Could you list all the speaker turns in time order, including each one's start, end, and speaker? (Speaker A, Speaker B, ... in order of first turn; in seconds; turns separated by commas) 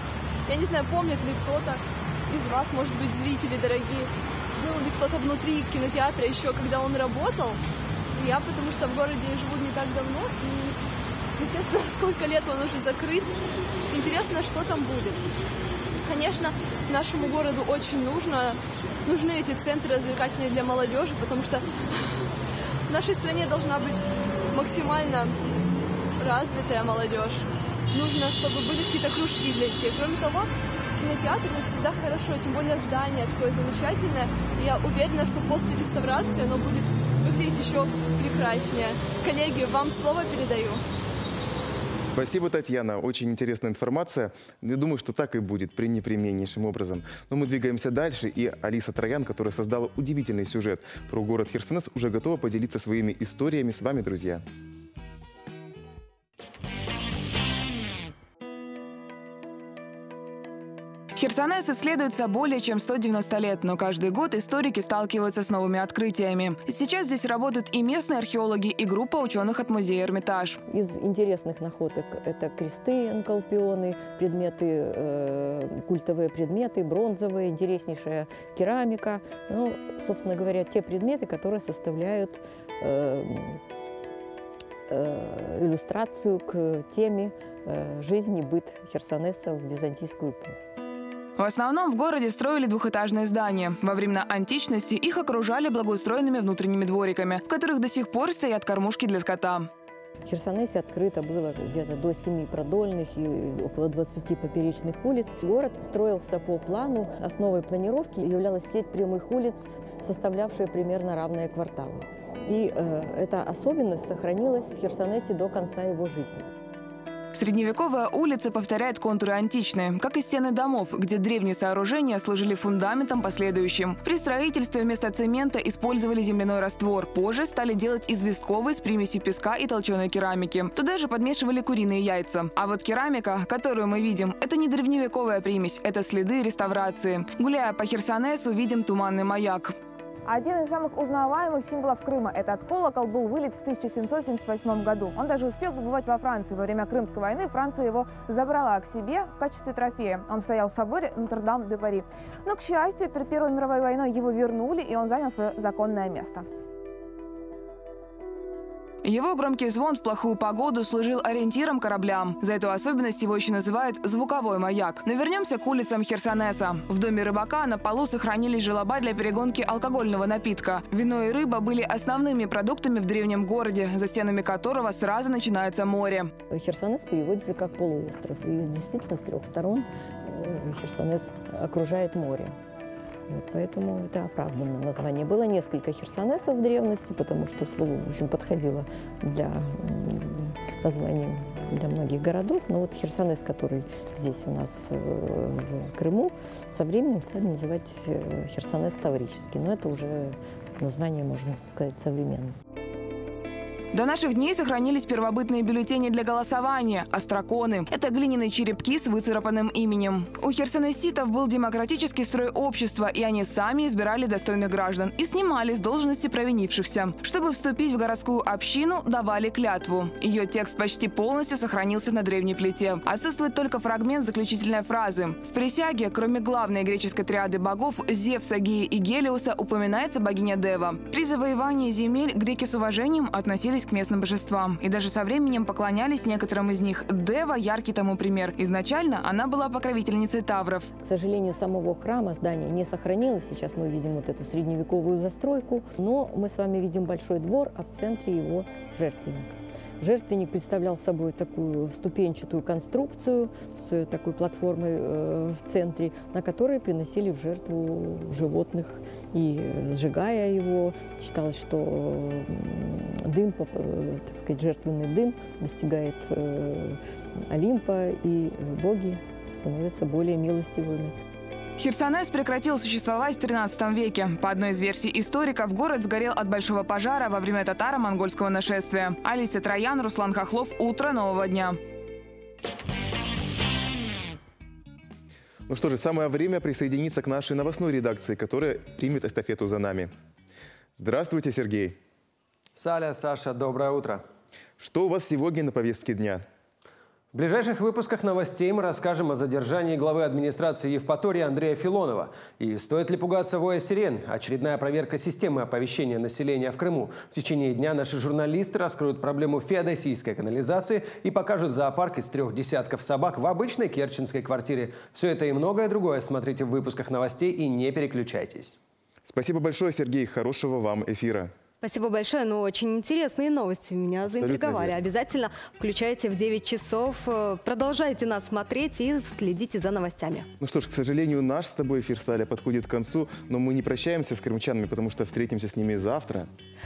Speaker A: 0.5-7.6, Speaker A: 8.2-10.8, Speaker A: 11.4-13.3, Speaker A: 13.9-15.2, Speaker A: 16.1-21.6, Speaker A: 22.9-25.6, Speaker A: 26.2-40.8, Speaker B: 42.0-54.4, Speaker C: 61.1-70.6, Speaker D: 70.7-83.6, Speaker D: 84.9-90.6, Speaker C: 91.4-99.7, Speaker D: 100.3-116.4, Speaker C: 117.3-139.7, Speaker E: 140.3-156.4, Speaker C: 159.0-176.3, Speaker D: 176.5-182.5, Speaker D: 183.3-202.5, Speaker C: 203.9-240.9, Speaker D: 241.0-271.1, Speaker C: 271.8-281.8, Speaker B: 285.7-290.1, Speaker B: 290.9-292.0, Speaker F: 292.8-294.2, Speaker B: 294.8-296.4, Speaker F: 297.3-318.8, Speaker B: 319.2-321.5, Speaker G: 321.8-330.5, Speaker B: 324.2-325.0, Speaker B: 330.6-336.5